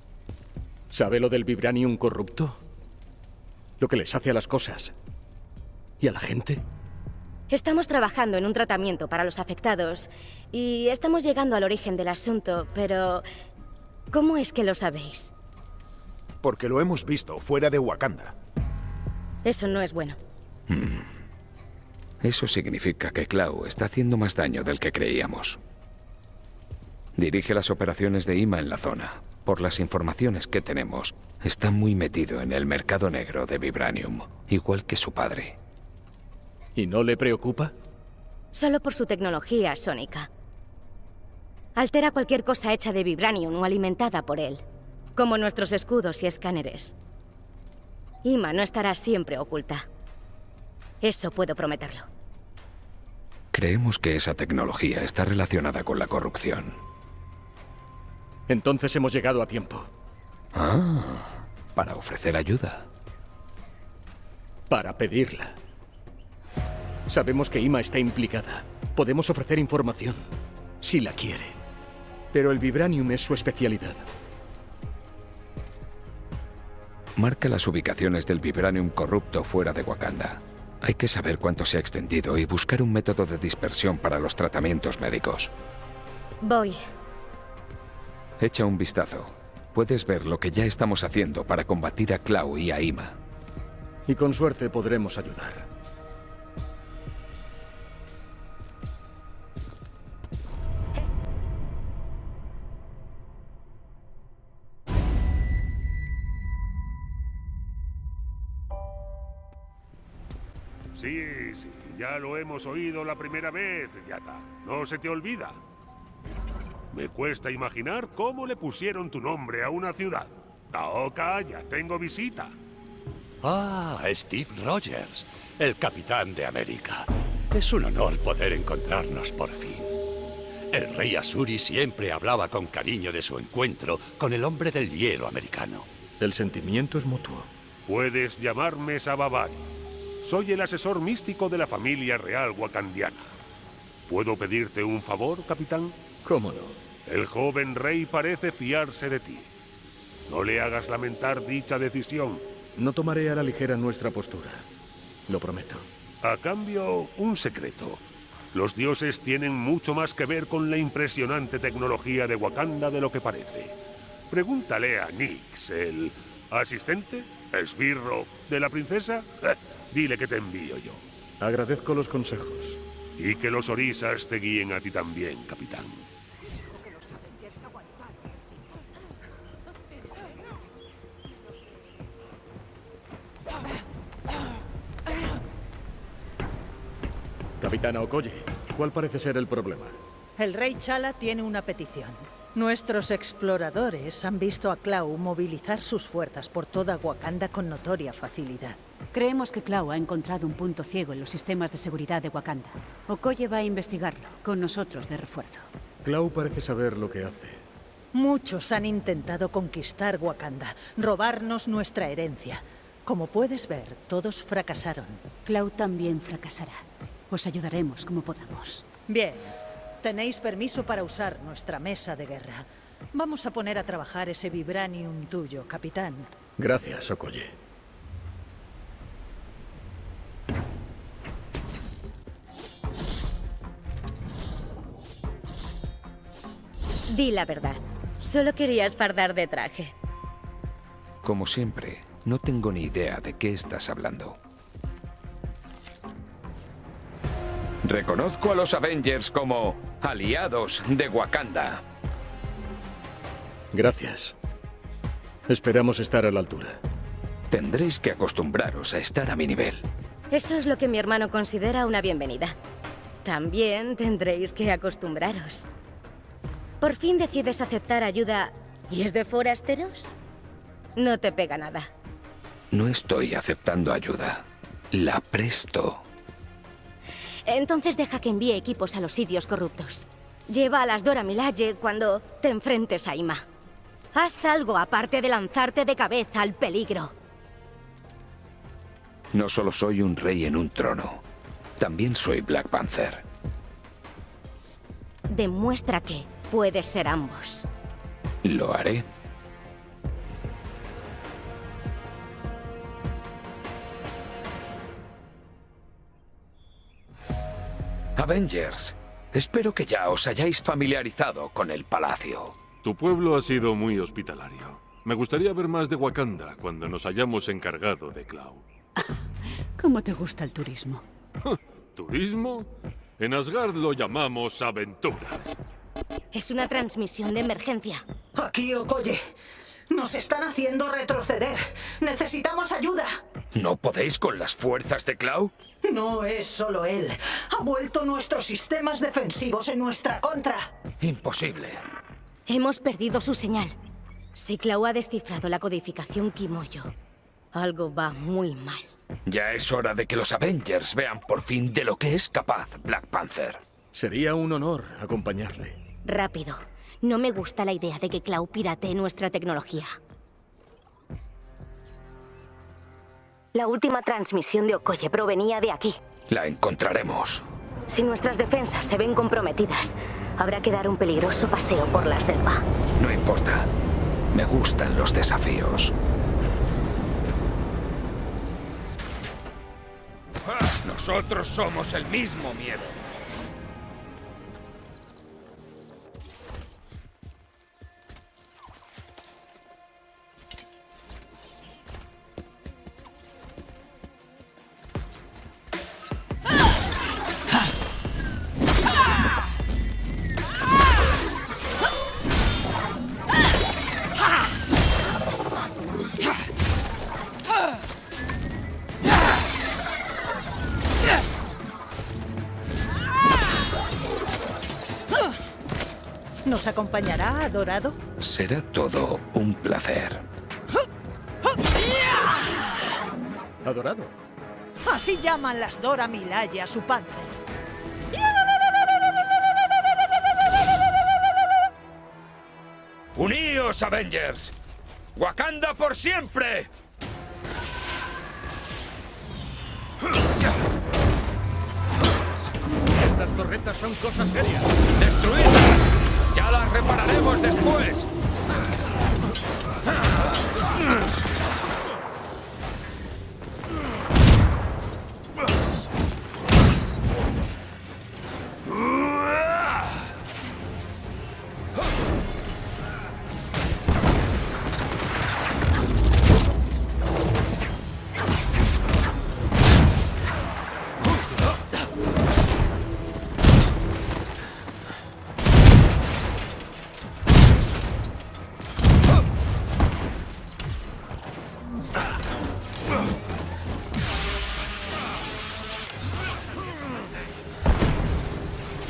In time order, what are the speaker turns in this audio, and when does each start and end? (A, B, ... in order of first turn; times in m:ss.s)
0:00.9-0:02.6 A
0:03.8-0:04.9 A
0:06.0-0:06.6 A
0:07.5-0:13.2 B
0:14.1-0:15.3 B
0:16.4-0:18.4 C
0:19.4-0:20.2 B
0:20.7-0:21.1 D
0:22.2-0:25.6 D
0:27.2-0:35.6 D
0:36.8-0:37.7 A
0:38.5-0:40.3 B
0:41.8-0:44.6 B
0:45.2-0:47.0 B
0:48.2-0:49.9 B
0:51.0-0:52.1 B
0:53.5-0:56.8 D
0:58.5-0:59.9 A
1:00.5-1:02.9 D
1:04.7-1:05.6 A
1:07.1-1:10.2 A
1:10.8-1:11.6 A
1:12.3-1:14.1 A
1:17.2-1:25.5 D
1:26.4-1:26.8 B
1:28.4-1:33.2 D
1:34.1-1:35.7 A
1:51.0-1:55.6 E
1:56.9-2:02.6 E
2:03.4-2:09.9 F
2:10.7-2:15.9 F
2:16.2-2:17.5 A
2:17.9-2:19.7 E
2:20.2-2:23.3 E
2:24.1-2:26.0 E
2:26.2-2:26.8 A
2:27.1-2:29.5 E
2:30.3-2:32.4 E
2:32.8-2:34.7 A
2:35.3-2:35.9 A
2:36.2-2:43.8 E
2:44.3-2:51.0 E
2:51.4-2:52.8 A
2:53.2-2:56.1 E
3:07.6-3:10.0 A
3:10.4-3:18.8 G
3:19.1-3:25.7 H
3:26.0-3:27.6 A
3:28.1-3:35.2 G
3:35.4-3:38.8 H
3:39.1-3:39.5 G
3:40.0-3:46.3 G
3:46.6-3:47.6 A
3:57.1-4:00.0 B
4:01.2-4:04.4 D
4:07.8-4:11.8 D
4:13.7-4:14.4 A
4:15.5-4:16.8 A
4:17.5-4:19.9 D
4:20.3-4:22.6 B
4:23.2-4:25.7 B
4:26.8-4:30.2 B
4:31.0-4:31.9 B
4:32.7-4:36.0 D
4:37.5-4:43.5 B
4:44.1-4:47.1 B
4:49.3-4:51.2 D
4:51.8-4:53.2 D
4:55.3-4:57.7 B
4:58.4-4:59.1 D
5:08.2-5:12.6 D
5:12.8-5:18.6 I
5:19.8-5:21.0 H
5:21.5-5:25.6 I
5:26.3-5:28.0 B
5:28.4-5:29.2 G
5:29.9-5:33.1 G
5:33.5-5:35.5 D
5:35.8-5:40.7 G
5:41.0-5:41.8 D
5:42.5-5:43.8 B
5:44.4-5:46.9 B
5:47.5-5:48.9 B
5:49.3-5:53.6 D
5:53.9-5:55.8 A
5:56.0-6:00.0 B
6:03.5-6:06.0 B
6:06.3-6:07.4 D
6:07.9-6:12.6 B
6:13.0-6:13.7 D
6:14.3-6:16.0 D
6:20.5-6:23.0 D
6:56.5-6:58.0 G
6:58.2-7:00.2 D
7:03.6-7:04.2 A
7:04.9-7:07.3 G
7:13.2-7:14.6 D
7:15.2-7:16.7 D
7:22.9-7:24.7 A
7:25.0-7:28.1 D